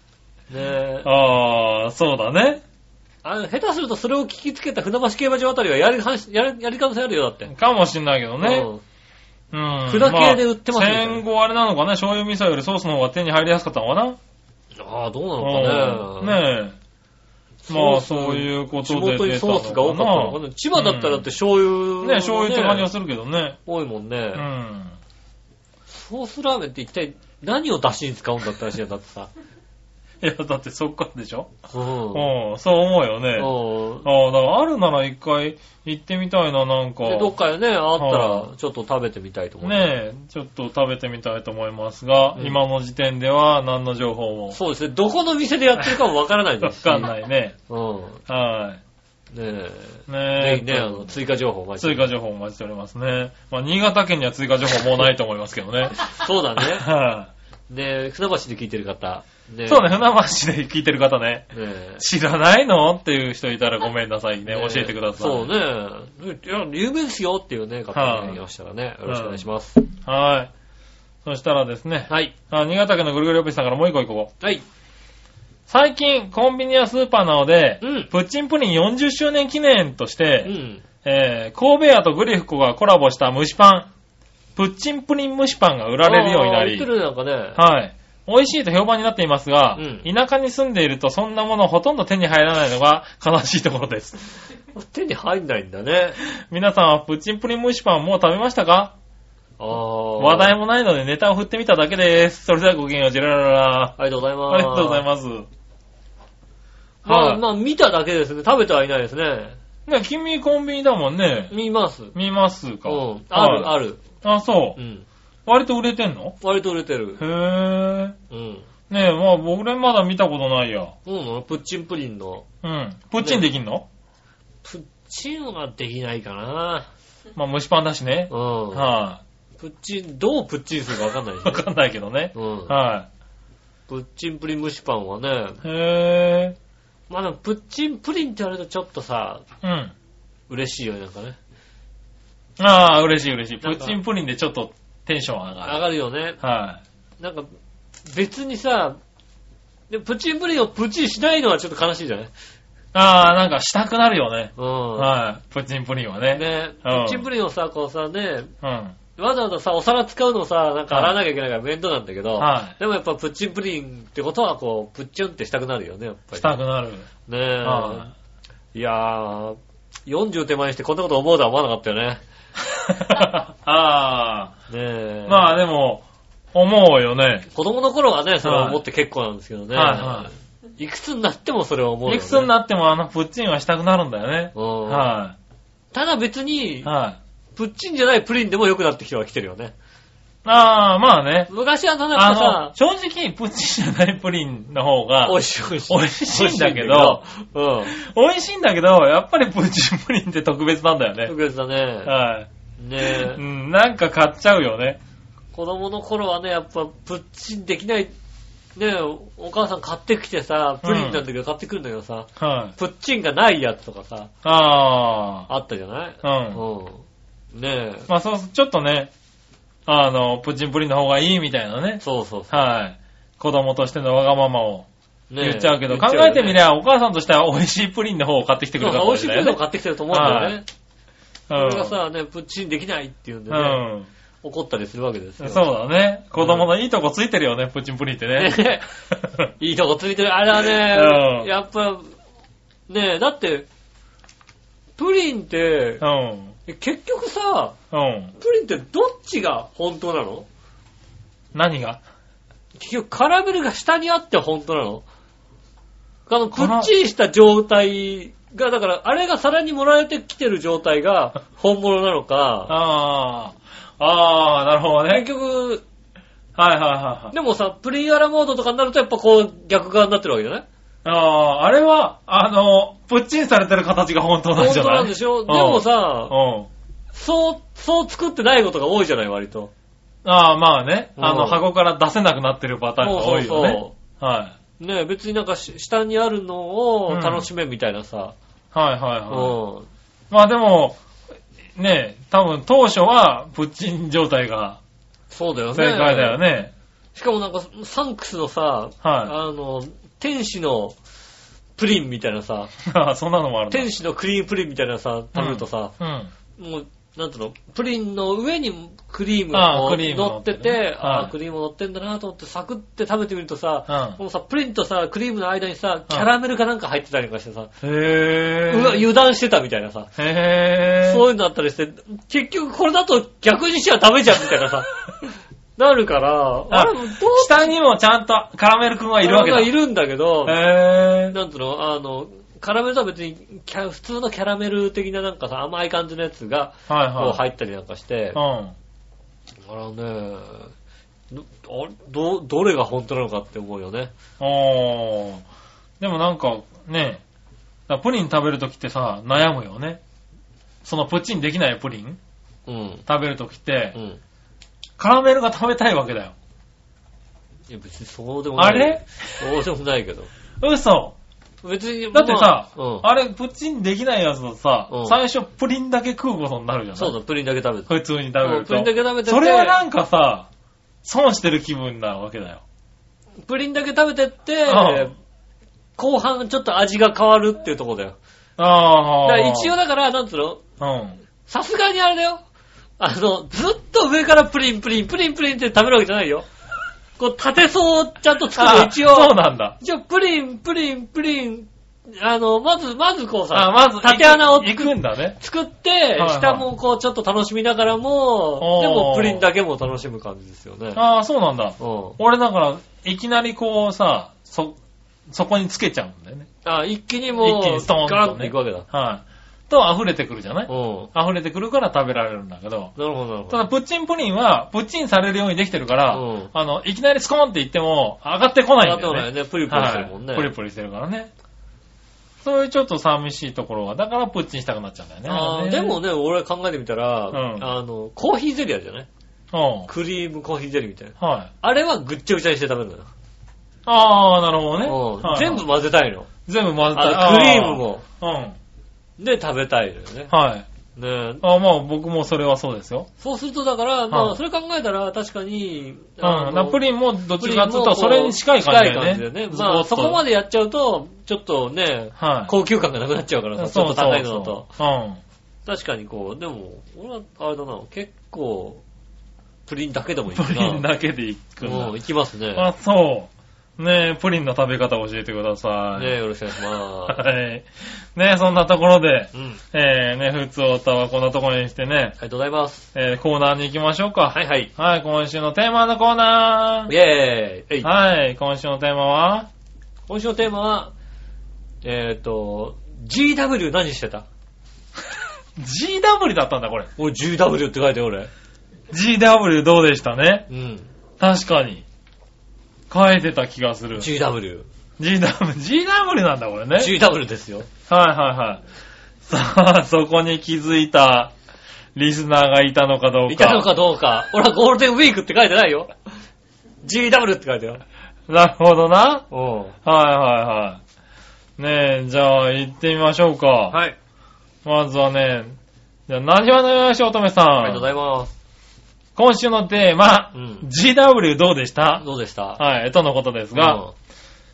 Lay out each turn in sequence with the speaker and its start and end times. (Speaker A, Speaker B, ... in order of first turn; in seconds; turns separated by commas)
Speaker A: 0.5-1.1, Speaker B: 1.0-2.6, Speaker A: 3.2-7.5, Speaker B: 7.5-8.7, Speaker A: 8.4-8.8, Speaker B: 9.5-14.2, Speaker A: 9.9-11.2, Speaker A: 14.8-16.4, Speaker B: 15.4-16.8, Speaker A: 17.6-22.9, Speaker B: 17.7-21.3, Speaker B: 22.0-23.6, Speaker A: 23.7-24.4, Speaker B: 24.4-25.0, Speaker A: 25.9-29.3, Speaker B: 30.2-31.5, Speaker A: 31.7-32.3, Speaker B: 32.1-37.4, Speaker A: 33.4-34.1, Speaker A: 37.0-40.0, Speaker B: 38.0-38.5, Speaker B: 39.6-44.6, Speaker A: 44.5-47.1, Speaker B: 46.6-47.6, Speaker A: 47.7-48.2, Speaker B: 48.3-48.8, Speaker A: 49.3-52.1, Speaker B: 50.1-51.1, Speaker B: 51.8-57.3, Speaker A: 56.1-56.9, Speaker A: 57.7-60.0, Speaker B: 59.7-65.5, Speaker A: 61.5-62.0, Speaker A: 64.5-69.8, Speaker B: 67.9-68.4, Speaker B: 69.1-69.4, Speaker B: 70.0-70.5, Speaker B: 71.2-74.3, Speaker A: 72.1-72.3, Speaker B: 75.7-83.9, Speaker A: 77.8-78.1, Speaker A: 80.4-80.8, Speaker B: 84.6-86.9, Speaker A: 86.0-87.6, Speaker B: 87.6-94.3, Speaker A: 89.8-90.1, Speaker A: 94.7-96.2, Speaker B: 96.2-98.9, Speaker A: 99.6-100.5, Speaker B: 100.2-105.5, Speaker A: 104.0-105.0, Speaker A: 107.0-109.6, Speaker B: 107.1-107.4, Speaker B: 109.9-111.5, Speaker A: 111.5-112.1, Speaker B: 112.1-114.8, Speaker A: 112.8-114.0, Speaker A: 114.8-115.1, Speaker B: 115.5-116.4, Speaker A: 116.4-117.2, Speaker B: 117.2-118.2, Speaker A: 118.3-118.7, Speaker B: 118.9-121.0, Speaker A: 121.0-122.5, Speaker B: 122.6-123.9, Speaker A: 123.2-123.5, Speaker A: 124.6-126.9, Speaker B: 127.4-129.2, Speaker A: 128.3-128.9, Speaker A: 129.6-131.7, Speaker B: 131.4-133.1, Speaker A: 132.3-132.7, Speaker A: 133.9-135.6, Speaker B: 135.6-136.6, Speaker A: 137.1-139.4, Speaker B: 139.6-139.9, Speaker A: 140.5-141.4, Speaker B: 142.6-145.8, Speaker A: 143.6-144.0, Speaker A: 145.6-146.4, Speaker B: 146.4-146.8, Speaker A: 147.2-147.5, Speaker A: 148.1-149.0, Speaker A: 149.9-152.3, Speaker B: 152.9-157.3, Speaker A: 154.6-155.1, Speaker A: 156.3-158.5, Speaker B: 158.6-159.0, Speaker A: 159.2-166.6, Speaker B: 160.9-161.2, Speaker B: 162.4-162.8, Speaker B: 166.3-167.1, Speaker A: 167.3-168.1, Speaker B: 167.6-168.1, Speaker A: 168.7-172.2, Speaker B: 172.7-174.5, Speaker A: 174.7-175.5, Speaker B: 175.3-177.5, Speaker A: 177.5-182.5, Speaker B: 178.4-178.8, Speaker B: 179.7-180.3, Speaker B: 182.1-185.3, Speaker A: 184.6-185.2, Speaker A: 185.9-186.9, Speaker B: 186.8-187.2, Speaker A: 187.6-189.7, Speaker B: 190.4-191.5, Speaker A: 191.5-192.7, Speaker B: 192.1-197.2, Speaker A: 195.3-197.9, Speaker B: 197.9-201.3, Speaker A: 201.2-202.1, Speaker B: 202.1-202.5, Speaker A: 202.8-203.4, Speaker B: 203.0-205.0, Speaker A: 205.5-208.1, Speaker A: 208.8-214.3, Speaker B: 210.8-211.2, Speaker B: 212.4-212.8, Speaker B: 214.4-215.5, Speaker A: 215.5-218.1, Speaker B: 216.2-216.6, Speaker B: 218.1-219.1, Speaker B: 219.9-224.9, Speaker A: 222.0-222.6, Speaker A: 225.3-226.6, Speaker B: 225.4-230.6, Speaker A: 228.8-230.7, Speaker B: 231.5-232.0, Speaker A: 231.5-233.8, Speaker B: 233.5-234.1, Speaker A: 234.4-235.7, Speaker B: 235.4-239.5, Speaker A: 236.4-236.7, Speaker A: 238.4-238.9, Speaker A: 239.6-242.1, Speaker B: 240.6-241.5, Speaker A: 242.9-243.7, Speaker A: 245.0-246.0, Speaker B: 246.0-246.6, Speaker A: 246.7-247.8, Speaker B: 247.9-248.3, Speaker A: 248.4-250.5, Speaker B: 251.5-252.0, Speaker A: 252.8-255.1, Speaker A: 256.3-262.8, Speaker B: 256.5-256.9, Speaker B: 262.7-265.3, Speaker A: 265.1-265.9, Speaker B: 266.6-267.3, Speaker A: 267.3-270.7, Speaker B: 271.1-276.7, Speaker A: 274.6-276.4, Speaker A: 277.1-279.7, Speaker B: 280.2-284.6, Speaker A: 281.2-281.6, Speaker A: 283.0-283.9, Speaker A: 284.8-288.4, Speaker B: 287.1-287.5, Speaker B: 288.7-289.6, Speaker A: 289.3-289.9, Speaker B: 290.3-291.0, Speaker B: 291.8-294.8, Speaker A: 295.3-296.4, Speaker B: 295.7-296.7, Speaker A: 297.1-301.0, Speaker B: 299.0-299.3, Speaker A: 301.8-302.7, Speaker B: 302.8-303.9, Speaker A: 303.7-305.9, Speaker B: 305.3-306.3, Speaker A: 306.6-317.7, Speaker B: 309.5-311.3, Speaker B: 313.9-314.2, Speaker B: 317.8-319.1, Speaker A: 318.7-320.1, Speaker B: 320.2-321.2, Speaker A: 321.0-327.7, Speaker B: 326.7-329.7, Speaker A: 329.2-330.6, Speaker B: 330.4-331.4, Speaker A: 331.3-338.4, Speaker B: 336.9-337.4, Speaker B: 338.4-338.8, Speaker A: 339.7-340.7, Speaker A: 341.3-344.1, Speaker B: 344.4-345.4, Speaker B: 346.0-347.2, Speaker B: 347.9-350.0, Speaker B: 350.8-352.2, Speaker A: 352.7-353.1, Speaker B: 353.1-354.0, Speaker A: 353.9-354.2, Speaker B: 355.0-356.3, Speaker A: 357.7-360.3, Speaker B: 358.6-359.0, Speaker B: 360.6-361.1, Speaker A: 361.6-363.1, Speaker B: 362.1-367.2, Speaker A: 364.9-365.2, Speaker A: 367.0-369.8, Speaker B: 367.9-370.5, Speaker B: 371.0-372.6, Speaker A: 373.4-375.1, Speaker B: 374.7-375.1, Speaker A: 376.0-378.2, Speaker B: 378.6-379.8, Speaker A: 379.2-380.6, Speaker B: 380.8-381.2, Speaker A: 381.5-382.4, Speaker A: 383.0-386.5, Speaker A: 387.2-401.0, Speaker B: 388.6-389.8, Speaker B: 393.5-395.4, Speaker B: 396.2-396.6, Speaker B: 398.6-399.5, Speaker B: 401.0-404.8, Speaker A: 401.8-402.2, Speaker B: 405.3-406.5, Speaker A: 406.6-408.9, Speaker B: 407.4-412.9, Speaker A: 410.7-411.1, Speaker A: 413.0-413.6, Speaker B: 413.5-421.3, Speaker A: 416.1-416.5, Speaker A: 418.8-420.5, Speaker B: 422.4-426.0, Speaker A: 425.3-429.1, Speaker B: 427.3-427.7, Speaker B: 429.5-429.9, Speaker A: 429.9-433.1, Speaker B: 431.2-431.5, Speaker B: 433.9-435.6, Speaker A: 434.9-436.3, Speaker B: 436.5-438.6, Speaker A: 436.9-438.0, Speaker A: 439.2-440.3, Speaker B: 440.3-440.7, Speaker A: 441.0-441.4, Speaker B: 441.4-443.1, Speaker A: 443.2-446.8, Speaker B: 444.1-444.4, Speaker B: 446.2-450.2, Speaker A: 447.4-454.7, Speaker B: 452.2-452.5, Speaker B: 453.6-455.2, Speaker A: 455.7-458.8, Speaker A: 459.7-460.9, Speaker B: 460.3-462.0, Speaker A: 461.6-462.7, Speaker B: 462.6-466.2, Speaker A: 465.9-467.2, Speaker B: 467.1-472.2, Speaker A: 469.3-469.6, Speaker A: 472.2-472.9, Speaker B: 472.9-476.9, Speaker A: 474.3-474.7, Speaker A: 476.9-477.9, Speaker B: 477.8-479.5, Speaker A: 480.1-480.9, Speaker A: 481.8-484.3, Speaker B: 485.6-486.9, Speaker A: 487.0-488.3, Speaker B: 488.9-490.5, Speaker A: 490.5-490.9, Speaker B: 491.2-491.9, Speaker B: 492.9-494.1, Speaker A: 494.0-494.7, Speaker B: 495.0-496.9, Speaker A: 496.8-497.7, Speaker B: 497.9-498.6, Speaker B: 499.3-501.3, Speaker B: 501.9-503.7, Speaker A: 503.3-505.9, Speaker A: 506.8-507.8, Speaker B: 508.3-509.3, Speaker A: 509.3-509.8, Speaker B: 509.9-510.8, Speaker B: 511.6-513.8, Speaker A: 513.7-514.0, Speaker B: 514.6-515.6, Speaker B: 516.1-517.9, Speaker A: 517.6-518.3, Speaker B: 519.2-522.0, Speaker A: 520.3-520.7, Speaker A: 522.0-522.6, Speaker B: 522.6-523.8, Speaker A: 523.5-523.9